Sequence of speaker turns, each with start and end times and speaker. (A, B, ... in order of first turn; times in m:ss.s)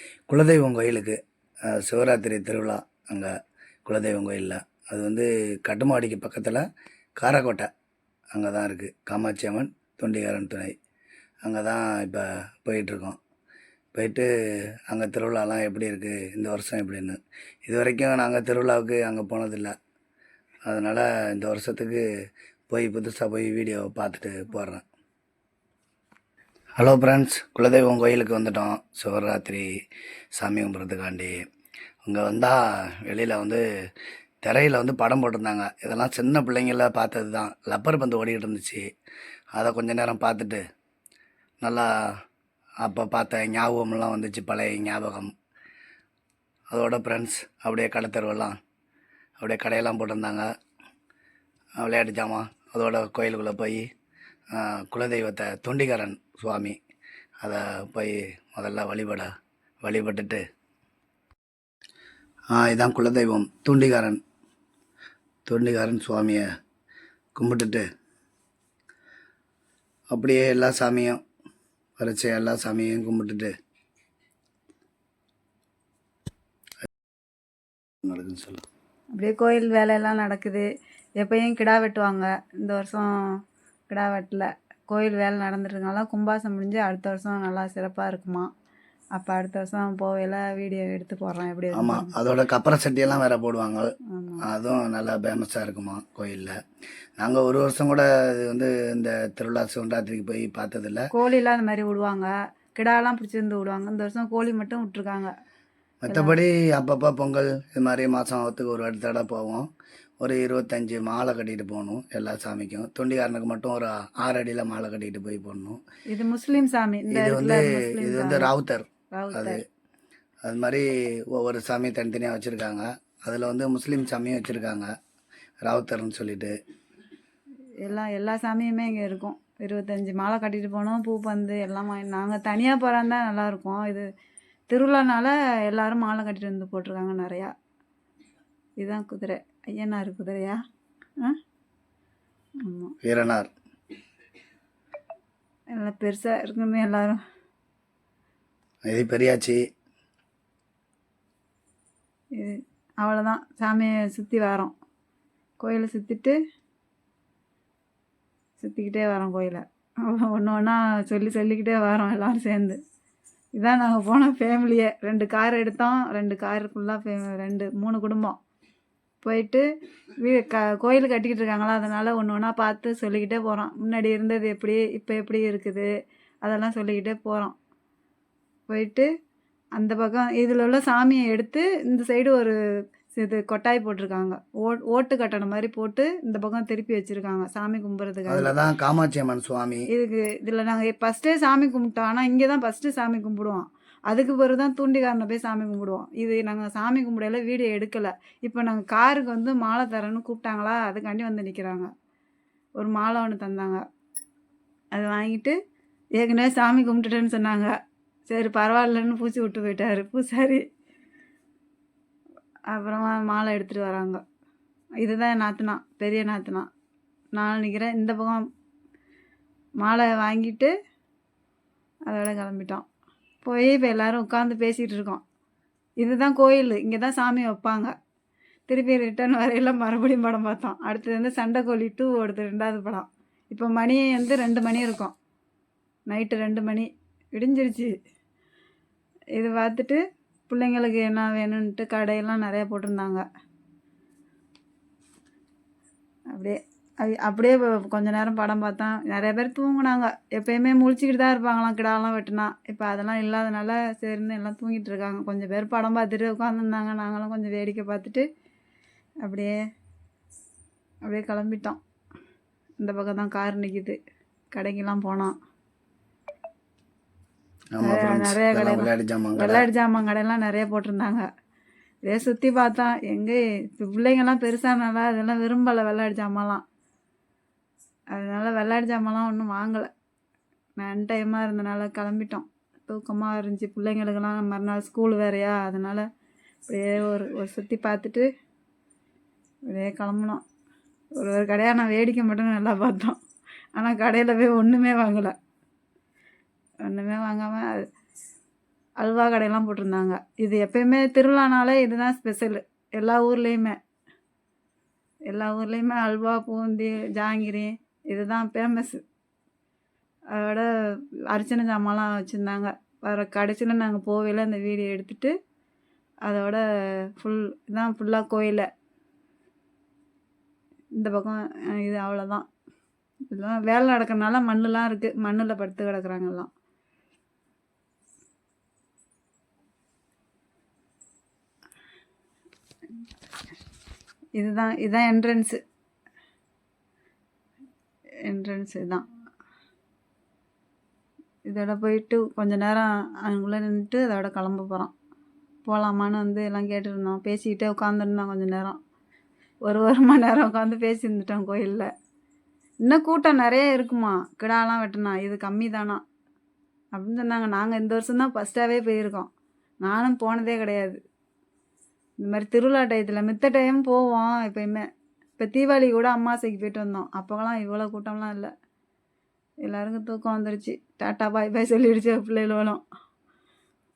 0:00.3-0:03.3 A
0:03.9-0:06.6 A
0:07.2-0:07.7 A
0:08.3-0:10.7 A
0:11.4-0:13.2 A
0:14.0-0:14.3 A
0:14.9-0:19.7 A
0:20.7-0:22.0 A
0:22.7-0:24.8 A
0:26.8-0:29.7 A
0:30.4-0:31.4 A
0:32.1-0:33.6 A
0:34.4-0:38.8 A
0:39.6-0:40.6 A
0:41.6-0:41.9 A
0:42.8-0:45.3 A
0:46.7-0:48.6 A
0:49.4-0:50.5 A
0:51.8-0:53.8 A
0:54.5-0:56.8 A
0:57.4-0:59.3 A
0:59.8-1:00.4 A
1:02.5-1:04.2 A
1:05.5-1:06.4 A
1:07.4-1:07.8 A
1:10.1-1:11.2 A
1:12.0-1:13.5 A
1:18.0-1:18.6 A
1:19.2-1:20.7 B
1:21.2-1:23.1 B
1:23.9-1:28.5 B
1:29.2-1:32.1 B
1:31.7-1:33.9 A
1:34.1-1:34.4 B
1:34.4-1:36.6 A
1:37.2-1:41.1 A
1:41.1-1:45.3 B
1:46.0-1:49.7 A
1:46.1-1:46.4 B
1:50.2-1:55.8 A
1:56.1-1:58.5 B
1:57.1-1:59.6 A
1:59.1-1:59.6 B
2:00.4-2:04.9 A
2:05.6-2:06.6 A
2:07.8-2:14.1 B
2:14.7-2:17.5 B
2:18.8-2:20.6 B
2:22.6-2:22.9 B
2:23.0-2:23.5 A
2:25.8-2:27.2 B
2:28.9-2:29.6 A
2:32.4-2:34.7 B
2:35.6-2:36.4 B
2:38.6-2:42.8 B
2:43.6-2:48.4 B
2:49.2-2:49.7 B
2:50.2-2:55.9 B
2:56.4-2:57.6 B
2:58.7-2:59.1 B
2:59.8-3:02.6 B
3:03.1-3:08.5 B
3:08.3-3:09.9 A
3:09.9-3:21.9 B
3:22.8-3:23.8 B
3:24.9-3:25.6 B
3:26.2-3:27.7 B
3:28.3-3:30.6 B
3:32.7-3:34.2 B
3:35.0-3:36.7 B
3:37.4-3:38.5 B
3:39.8-3:40.7 B
3:42.1-3:42.9 B
3:43.4-3:45.2 B
3:46.0-3:47.9 B
3:48.7-3:55.1 B
3:56.1-3:57.9 B
3:59.4-4:03.2 B
4:06.3-4:18.3 B
4:19.2-4:19.6 B
4:21.1-4:21.8 B
4:22.8-4:24.0 B
4:24.5-4:25.3 B
4:27.8-4:29.7 A
4:27.8-4:31.3 B
4:32.1-4:36.6 B
4:38.1-4:39.9 B
4:40.8-4:46.1 B
4:46.7-4:48.3 B
4:49.7-4:50.4 B
4:51.2-4:53.2 B
4:53.8-4:55.4 B
4:56.8-4:57.9 B
4:59.0-5:03.8 B
5:05.3-5:09.0 B
5:10.3-5:10.7 B
5:11.3-5:15.3 B
5:16.3-5:18.7 B
5:21.0-5:22.5 B
5:23.3-5:26.5 B
5:34.4-5:35.6 B
5:38.3-5:39.0 B
5:41.5-5:44.9 B
5:45.7-5:48.8 B
5:49.7-5:51.9 B
5:52.8-5:56.0 B
5:56.9-5:59.3 B
5:59.8-6:01.0 B
6:02.2-6:04.8 B
6:05.4-6:08.5 B
6:09.6-6:12.8 B